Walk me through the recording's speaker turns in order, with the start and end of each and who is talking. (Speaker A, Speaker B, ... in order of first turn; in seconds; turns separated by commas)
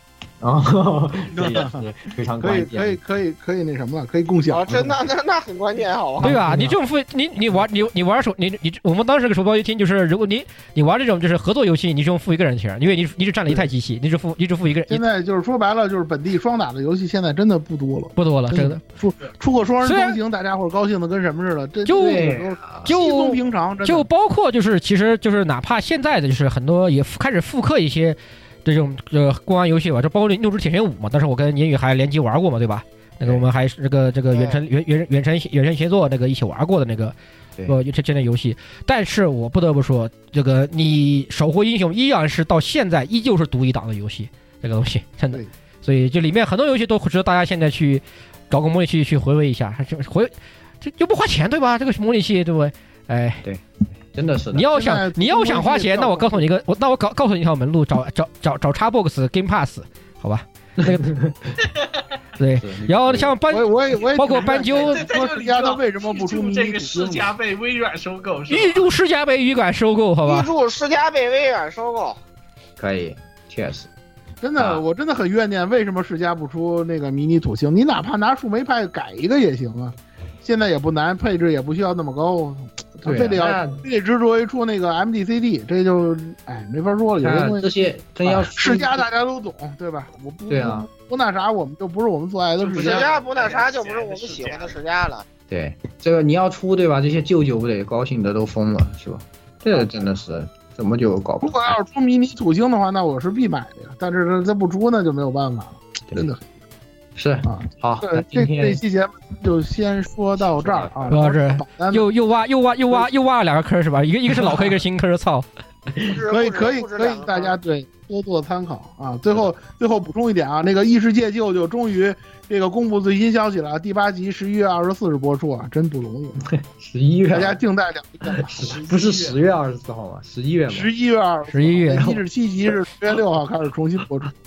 Speaker A: 0.4-3.0, Speaker B: 1.3-1.8, Speaker B: 2.4-5.0, Speaker C: 4.5-6.4, Speaker A: 6.2-6.8, Speaker D: 6.2-15.0, Speaker B: 14.9-24.1, Speaker D: 18.2-18.8, Speaker D: 19.8-20.2, Speaker D: 21.9-22.3, Speaker A: 22.0-22.9, Speaker D: 22.9-37.1, Speaker A: 33.2-33.5, Speaker C: 34.3-34.6, Speaker D: 37.7-53.4, Speaker A: 53.4-54.7, Speaker D: 54.5-61.1, Speaker B: 54.7-56.5, Speaker A: 60.8-61.3, Speaker D: 62.4-65.1, Speaker A: 62.6-63.4, Speaker B: 63.5-67.3, Speaker E: 64.2-68.9, Speaker D: 68.5-70.5, Speaker C: 70.2-72.2, Speaker A: 72.8-73.9, Speaker B: 74.4-87.7, Speaker A: 74.6-74.8, Speaker A: 83.0-83.8, Speaker A: 87.2-89.0, Speaker B: 88.2-93.1, Speaker A: 90.5-90.9, Speaker E: 92.6-94.8, Speaker C: 92.8-95.2, Speaker A: 95.5-101.8, Speaker B: 101.4-106.4, Speaker A: 107.2-108.8, Speaker B: 107.5-112.1, Speaker A: 110.4-111.2, Speaker D: 111.1-115.5, Speaker C: 116.0-117.5, Speaker B: 116.3-126.5, Speaker A: 126.5-127.6, Speaker B: 127.3-128.9, Speaker A: 128.3-130.9, Speaker E: 128.9-129.4, Speaker B: 130.7-134.3, Speaker D: 131.5-132.2